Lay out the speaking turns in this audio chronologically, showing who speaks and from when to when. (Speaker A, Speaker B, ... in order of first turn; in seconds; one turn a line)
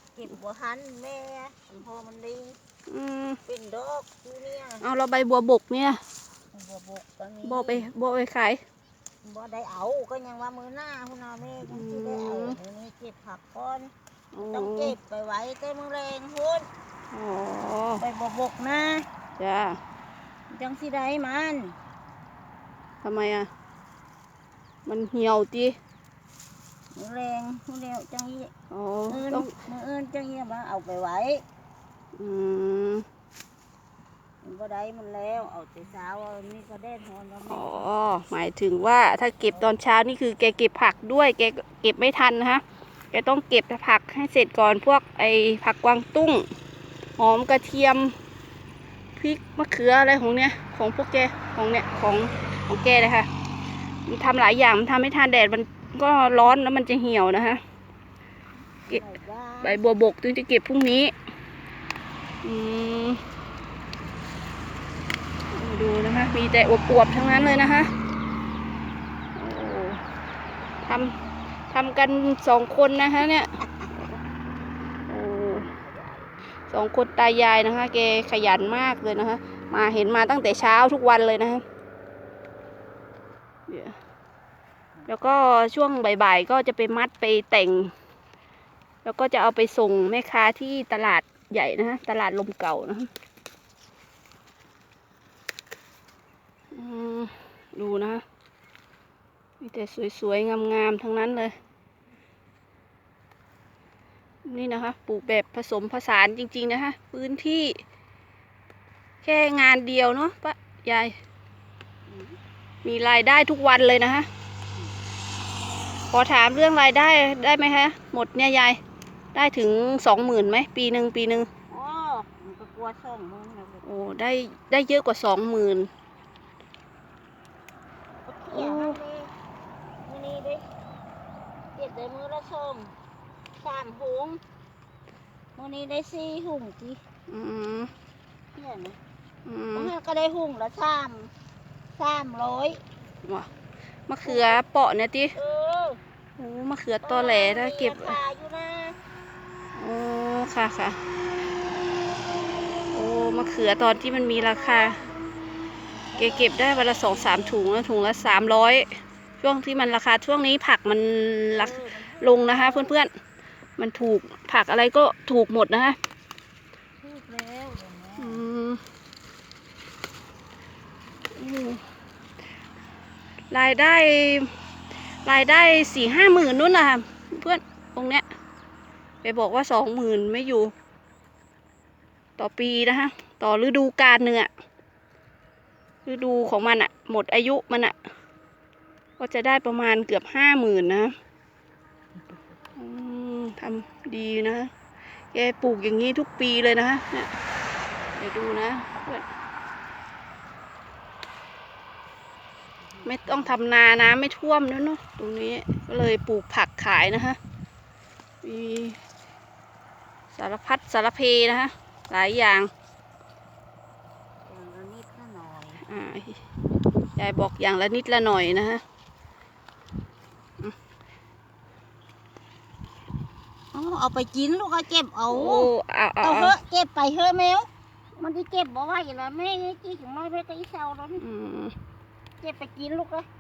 Speaker A: 0.2-2.6
Speaker B: 2.9-3.4
Speaker A: 3.5-4.9
Speaker B: 4.8-6.0
Speaker A: 6.5-7.9
Speaker B: 7.4-8.6
Speaker A: 9.2-13.9
Speaker B: 11.7-12.6
Speaker B: 14.3-15.0
Speaker A: 14.4-16.7
Speaker B: 17.1-18.0
Speaker A: 18.0-19.1
Speaker B: 19.4-19.8
Speaker A: 20.5-21.8
Speaker B: 23.0-23.5
Speaker B: 24.9-25.8
Speaker A: 26.9-28.5
Speaker B: 28.7-29.5
Speaker A: 29.1-31.4
Speaker B: 32.2-33.0
Speaker A: 34.4-37.9
Speaker B: 37.5-46.5
Speaker B: 47.2-48.1
Speaker B: 49.2-53.3
Speaker B: 54.1-57.6
Speaker A: 58.9-59.8
Speaker B: 59.6-61.1
Speaker B: 62.4-63.2
Speaker B: 65.5-67.9
Speaker B: 69.3-70.0
Speaker B: 70.8-71.1
Speaker B: 71.7-74.1
Speaker B: 75.1-75.7
Speaker A: 75.6-76.5
Speaker B: 76.7-81.6
Speaker B: 83.7-84.0
Speaker A: 85.0-85.3
Speaker B: 85.1-87.9
Speaker B: 89.0-93.1
Speaker B: 96.7-98.2
Speaker B: 99.6-101.5
Speaker B: 104.5-107.8
Speaker B: 109.2-111.2
Speaker A: 112.1-112.4
Speaker B: 112.8-114.3
Speaker B: 116.1-118.8
Speaker B: 119.3-121.5
Speaker A: 121.7-123.8
Speaker B: 123.8-125.9
Speaker A: 128.3-129.3
Speaker B: 128.5-129.0
Speaker A: 130.1-130.6
Speaker A: 131.8-132.9
Speaker A: 133.6-134.4
Speaker A: 135.6-137.0
Speaker B: 137.3-137.9
Speaker A: 138.5-139.0
Speaker B: 139.5-139.9
Speaker A: 139.7-141.3
Speaker A: 142.0-142.8
Speaker B: 144.1-145.3
Speaker A: 144.2-144.6
Speaker A: 145.4-146.0
Speaker B: 146.4-148.2
Speaker A: 147.0-149.0
Speaker B: 149.8-151.0
Speaker B: 152.9-155.0
Speaker A: 154.1-155.1
Speaker A: 156.1-157.6
Speaker B: 156.2-158.9
Speaker B: 159.4-163.1
Speaker A: 161.5-163.0
Speaker B: 163.8-166.0
Speaker A: 167.0-168.5
Speaker B: 168.2-168.8
Speaker B: 171.4-171.8
Speaker B: 173.5-174.5
Speaker B: 175.2-178.2
Speaker B: 179.2-180.7
Speaker B: 182.4-184.5
Speaker B: 186.1-187.9
Speaker B: 189.2-191.1
Speaker B: 192.8-194.7
Speaker B: 195.3-197.3
Speaker B: 198.2-199.2
Speaker A: 202.9-203.6
Speaker B: 203.1-207.4
Speaker B: 208.4-209.0
Speaker B: 210.3-212.7
Speaker A: 214.5-215.8
Speaker B: 215.8-216.4
Speaker B: 217.2-218.8
Speaker A: 223.7-225.7
Speaker B: 225.3-226.6
Speaker A: 226.2-231.2
Speaker B: 231.2-231.7
Speaker A: 232.4-233.3